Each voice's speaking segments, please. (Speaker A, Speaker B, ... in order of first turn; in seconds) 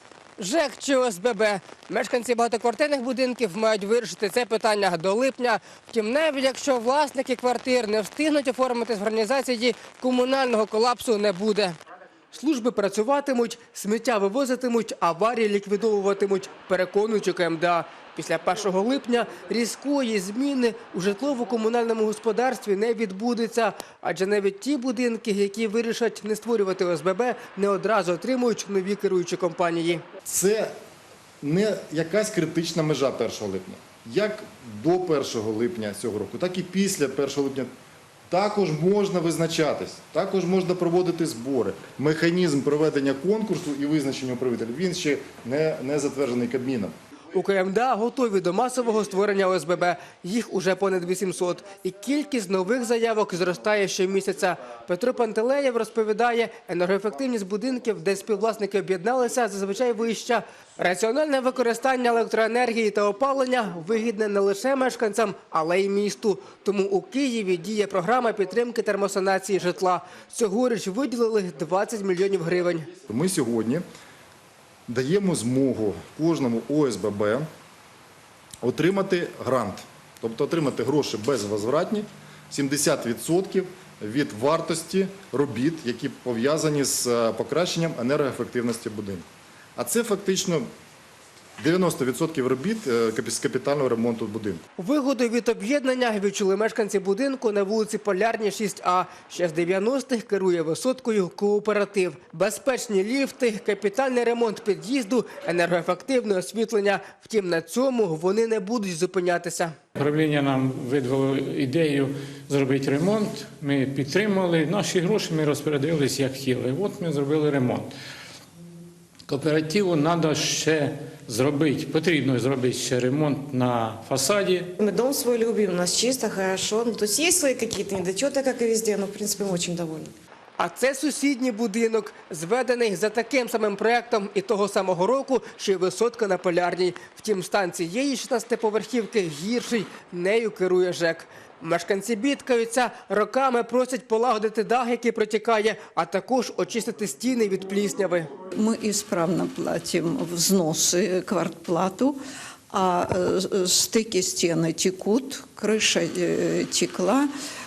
Speaker A: 0.4-11.8, 12.3-30.0, 47.3-72.9, 94.8-109.7, 130.6-148.3
Speaker B: 30.2-30.7, 31.4-37.7, 38.3-46.9, 73.1-73.8, 74.9-77.5, 78.6-89.2, 89.8-90.7, 91.6-94.6
Speaker C: 110.0-117.9, 119.3-124.7
Speaker D: 124.8-130.1
Speaker E: 148.5-152.2, 152.7-157.3